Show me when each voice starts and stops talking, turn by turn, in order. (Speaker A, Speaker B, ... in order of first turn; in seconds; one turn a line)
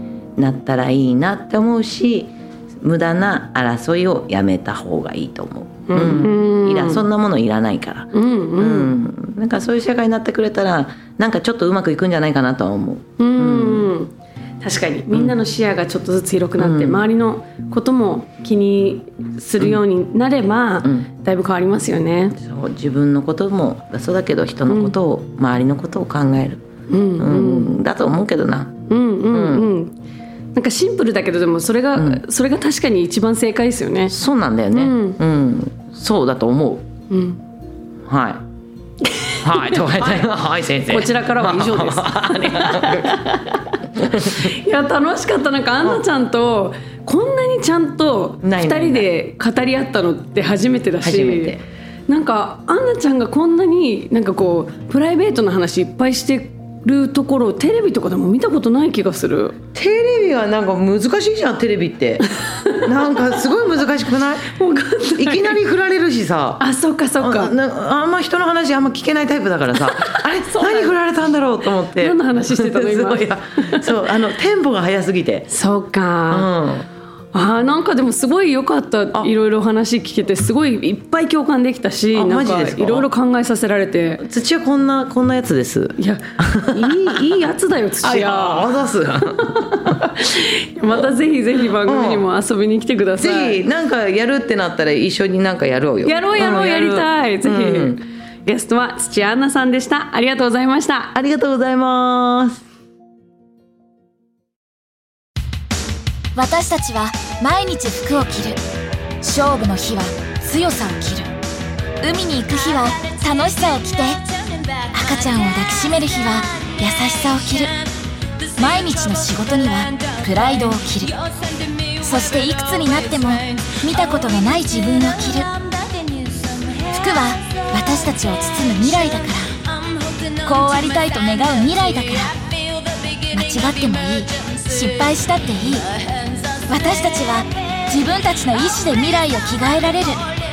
Speaker A: 0.4-13.9
Speaker B: 5.9-7.0
Speaker B: 8.1-8.9
Speaker B: 13.2-22.4
Speaker A: 15.1-15.4
Speaker A: 16.6-17.0
Speaker A: 22.4-26.6
Speaker B: 24.7-24.9
Speaker B: 26.9-27.7
Speaker A: 27.2-28.8
Speaker B: 28.9-29.9
Speaker A: 29.3-29.7
Speaker B: 30.5-34.2
Speaker A: 31.9-32.2
Speaker A: 34.1-36.9
Speaker B: 34.7-35.2
Speaker B: 37.1-37.4
Speaker A: 38.1-38.4
Speaker B: 39.1-40.3
Speaker A: 39.4-43.2
Speaker B: 40.9-59.6
Speaker A: 44.0-44.5
Speaker A: 48.4-49.1
Speaker A: 51.0-51.6
Speaker A: 59.7-62.3
Speaker A: 62.8-64.6
Speaker B: 64.5-65.6
Speaker A: 65.2-66.6
Speaker B: 66.6-67.5
Speaker A: 67.2-75.5
Speaker B: 70.1-71.0
Speaker B: 72.0-73.9
Speaker B: 75.5-76.5
Speaker A: 76.3-76.9
Speaker B: 77.3-84.2
Speaker A: 82.1-83.1
Speaker A: 84.2-87.3
Speaker B: 86.0-88.7
Speaker A: 88.0-90.0
Speaker B: 89.4-93.6
Speaker A: 91.8-92.3
Speaker A: 93.2-98.0
Speaker B: 96.0-101.1
Speaker A: 101.1-102.6
Speaker C: 106.3-108.6
Speaker C: 109.2-111.3
Speaker C: 112.0-114.2
Speaker C: 114.9-117.8
Speaker C: 118.6-121.2
Speaker C: 122.0-125.5
Speaker C: 126.9-129.6
Speaker C: 130.4-132.4
Speaker C: 133.3-135.9
Speaker C: 136.7-140.2